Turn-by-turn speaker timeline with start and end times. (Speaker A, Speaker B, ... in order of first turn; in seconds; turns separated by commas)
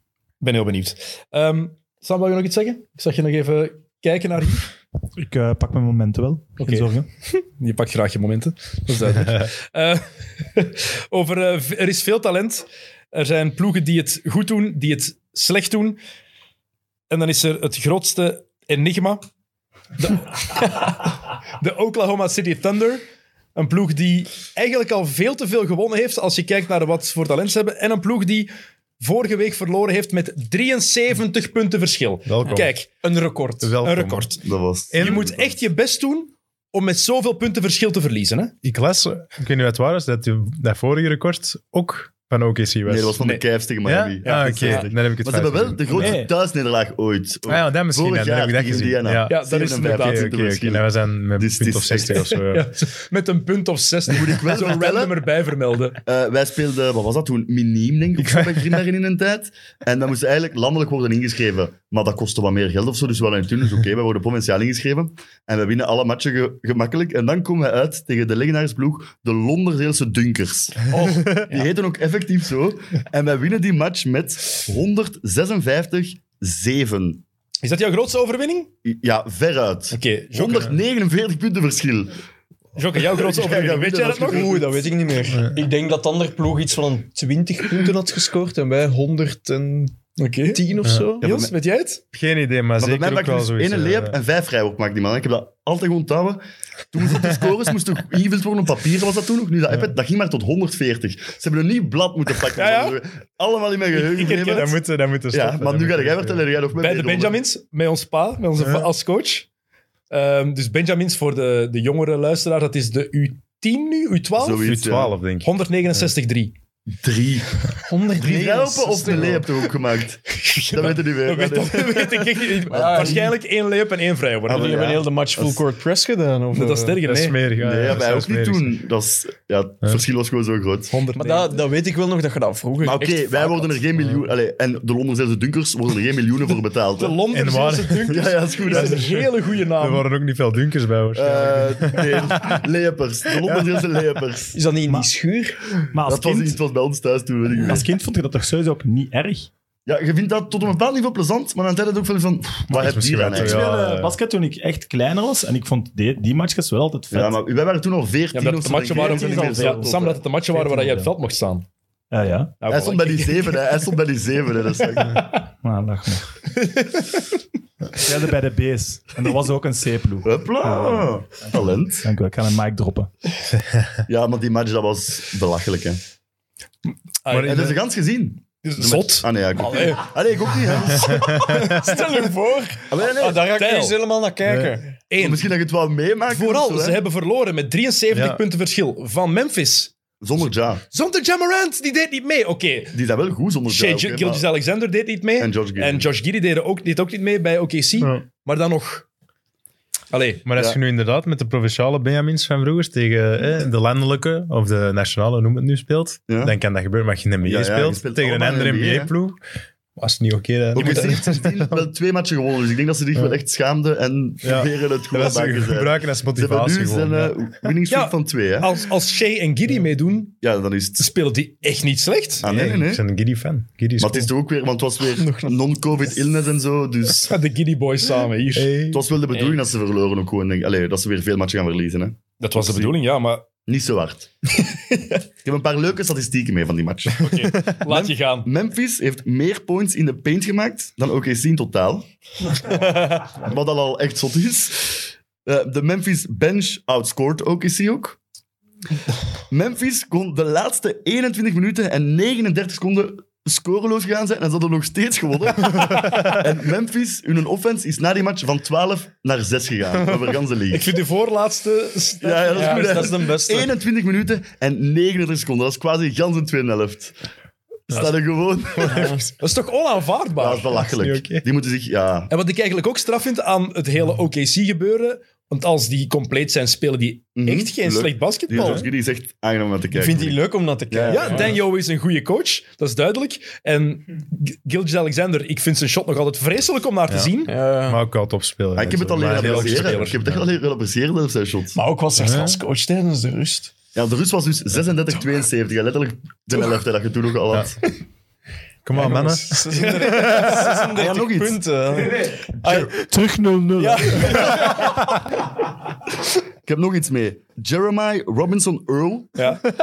Speaker A: 0.4-4.7, Speaker B: 5.2-7.1, Speaker A: 6.6-6.9, Speaker A: 7.4-16.0, Speaker A: 17.1-19.2, Speaker A: 20.0-23.0, Speaker A: 23.6-32.9, Speaker C: 32.3-32.7, Speaker D: 32.5-33.8, Speaker C: 33.6-34.4, Speaker A: 33.8-34.4, Speaker E: 34.4-35.5, Speaker C: 34.9-35.2, Speaker A: 35.0-38.5, Speaker C: 38.6-43.2, Speaker E: 42.9-52.3, Speaker C: 43.8-46.2, Speaker A: 44.2-44.7, Speaker B: 46.0-46.3, Speaker C: 47.5-52.7, Speaker A: 49.3-50.3, Speaker A: 52.3-56.0, Speaker E: 54.1-55.1, Speaker E: 56.1-77.2, Speaker C: 58.2-58.8, Speaker D: 70.9-71.6, Speaker A: 77.6-78.7, Speaker E: 78.8-82.2, Speaker A: 79.9-80.7, Speaker A: 82.8-84.5, Speaker E: 82.9-84.9, Speaker D: 84.3-90.0, Speaker A: 90.2-92.0, Speaker D: 90.5-91.2, Speaker C: 90.8-91.1, Speaker E: 91.2-91.5, Speaker C: 92.1-94.2, Speaker E: 92.8-107.4, Speaker A: 102.6-103.0, Speaker A: 103.9-104.8, Speaker C: 104.5-106.5, Speaker A: 106.8-109.5, Speaker C: 108.6-108.9, Speaker A: 110.1-114.7, Speaker E: 114.4-115.2, Speaker C: 114.6-116.1, Speaker A: 115.4-116.5, Speaker E: 116.9-122.2, Speaker D: 117.8-119.6, Speaker A: 120.3-124.9, Speaker D: 122.5-123.3, Speaker E: 122.7-123.3, Speaker E: 124.5-125.6, Speaker D: 124.5-127.0, Speaker A: 126.5-127.4, Speaker C: 127.0-128.8, Speaker E: 127.6-130.9, Speaker A: 130.9-131.6, Speaker D: 131.2-133.8, Speaker E: 132.8-137.2, Speaker A: 137.0-140.1, Speaker C: 137.3-142.6, Speaker E: 138.1-139.0, Speaker E: 141.2-144.6, Speaker C: 143.4-143.7, Speaker D: 144.5-145.6, Speaker B: 145.9-146.6, Speaker E: 146.1-147.9, Speaker B: 147.6-149.5, Speaker E: 149.9-153.7, Speaker C: 152.7-154.2, Speaker B: 153.4-157.4, Speaker E: 157.1-160.2, Speaker A: 158.3-161.7, Speaker B: 158.8-159.9, Speaker B: 160.5-161.1, Speaker B: 162.1-162.6, Speaker A: 162.6-163.6, Speaker E: 162.7-165.3, Speaker B: 165.6-166.4, Speaker A: 166.6-167.2, Speaker B: 167.9-173.1, Speaker E: 170.2-172.1, Speaker E: 174.1-176.0, Speaker A: 177.2-177.7, Speaker C: 177.3-177.8, Speaker E: 177.3-181.3, Speaker A: 178.6-180.0, Speaker D: 179.6-180.1, Speaker D: 181.0-185.0, Speaker C: 181.2-181.7, Speaker E: 182.9-183.5, Speaker A: 183.6-184.0, Speaker C: 184.5-184.8, Speaker A: 185.1-185.5, Speaker E: 185.2-187.0, Speaker A: 186.3-189.9, Speaker C: 188.1-188.4, Speaker E: 190.2-190.8, Speaker A: 190.9-192.9, Speaker E: 192.9-194.4, Speaker A: 193.7-199.1, Speaker E: 195.4-196.1, Speaker C: 198.0-198.3, Speaker A: 200.1-200.5, Speaker C: 200.5-209.4, Speaker E: 206.3-206.6, Speaker E: 207.4-209.1, Speaker C: 210.0-211.9, Speaker E: 210.7-218.8, Speaker A: 210.8-211.2, Speaker C: 214.4-217.7, Speaker A: 217.9-220.4, Speaker E: 220.4-221.1, Speaker A: 221.0-222.4, Speaker E: 222.4-223.0, Speaker C: 222.4-224.3, Speaker E: 224.0-227.3, Speaker D: 225.2-226.2, Speaker A: 227.1-228.8, Speaker C: 228.6-229.1, Speaker E: 228.9-232.9, Speaker A: 232.4-233.4, Speaker E: 233.7-242.1, Speaker A: 237.2-238.5, Speaker E: 242.7-248.2, Speaker E: 249.5-260.9, Speaker A: 260.7-263.1, Speaker E: 262.2-267.1, Speaker D: 262.5-263.7, Speaker E: 267.9-269.2, Speaker C: 268.7-269.2, Speaker D: 268.9-269.2, Speaker A: 269.4-270.8, Speaker E: 270.4-272.3, Speaker C: 270.8-271.5, Speaker A: 272.3-278.8, Speaker E: 277.4-281.6, Speaker D: 278.5-278.9, Speaker C: 278.6-278.9, Speaker D: 279.9-281.6, Speaker A: 281.1-287.5, Speaker D: 287.5-288.0, Speaker C: 287.9-290.5, Speaker E: 288.8-291.8, Speaker A: 289.3-290.2, Speaker D: 291.8-293.7, Speaker C: 292.2-292.6, Speaker E: 293.9-297.8, Speaker C: 298.9-300.9, Speaker D: 298.9-303.1, Speaker A: 299.7-300.4, Speaker E: 300.9-301.6, Speaker B: 302.9-304.5, Speaker D: 303.8-305.2, Speaker E: 306.6-309.4, Speaker A: 309.4-309.7